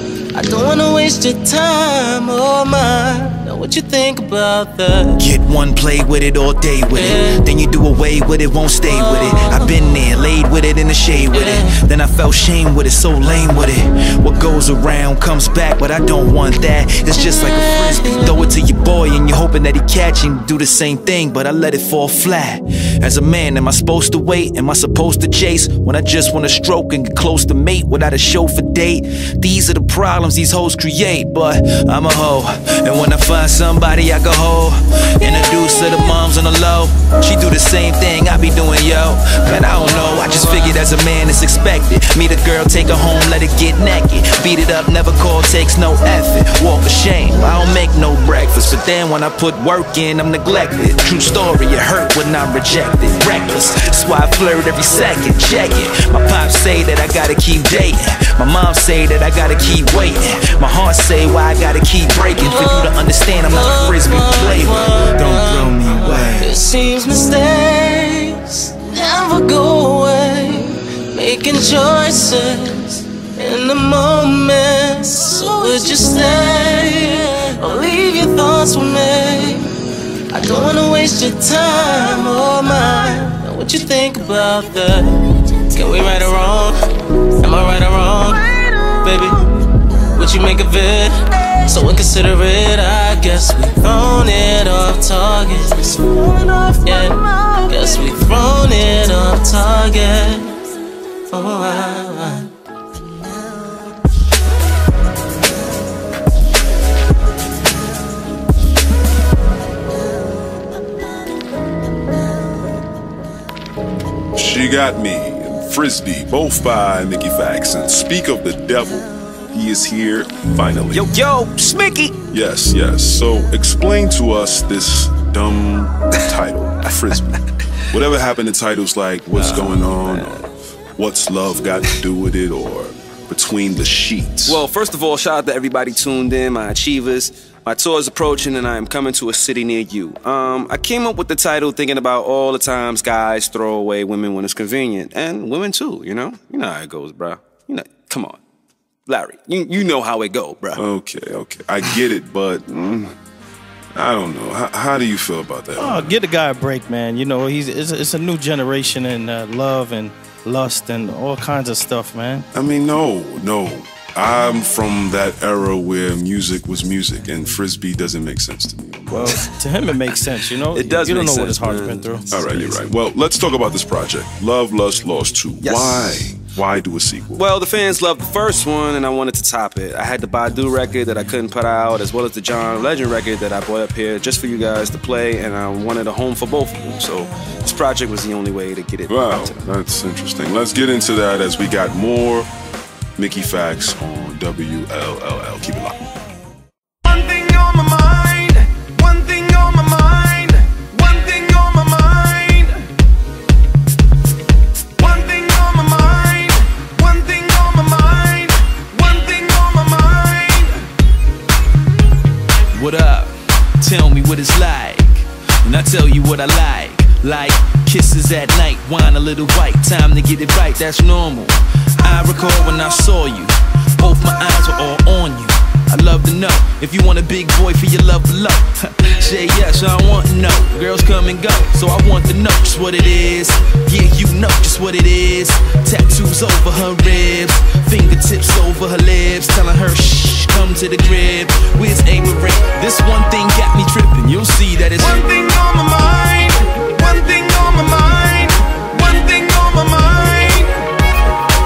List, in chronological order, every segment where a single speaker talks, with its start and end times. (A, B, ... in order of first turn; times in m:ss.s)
0:00.3-0:05.2 A
0:05.2-1:06.6 B
0:06.9-0:07.4 A
0:08.9-0:10.0 A
0:11.3-0:11.7 A
0:17.5-0:18.5 A
1:02.4-1:19.7 A
1:20.3-1:26.8 A
1:27.4-1:29.5 A
1:30.1-1:40.6 A
1:41.3-1:42.5 A
1:54.4-2:01.1 C
2:00.9-2:02.0 D
2:01.5-2:02.1 B
2:02.3-2:07.4 C
2:07.9-2:14.6 C
2:09.3-2:10.4 D
2:14.4-2:28.4 D
2:29.0-2:30.8 D
2:30.8-2:33.1 C
2:33.9-2:36.2 C
2:35.8-2:42.5 E
2:42.5-2:49.3 C
2:49.2-2:52.3 E
2:50.7-2:52.8 D
2:52.3-2:57.4 C
2:55.6-2:56.3 D
2:57.3-3:09.6 D
3:09.1-3:12.5 C
3:13.2-3:16.1 C
3:17.1-3:22.7 F
3:25.0-3:30.3 F
3:32.7-4:05.2 B
4:05.0-4:10.7 F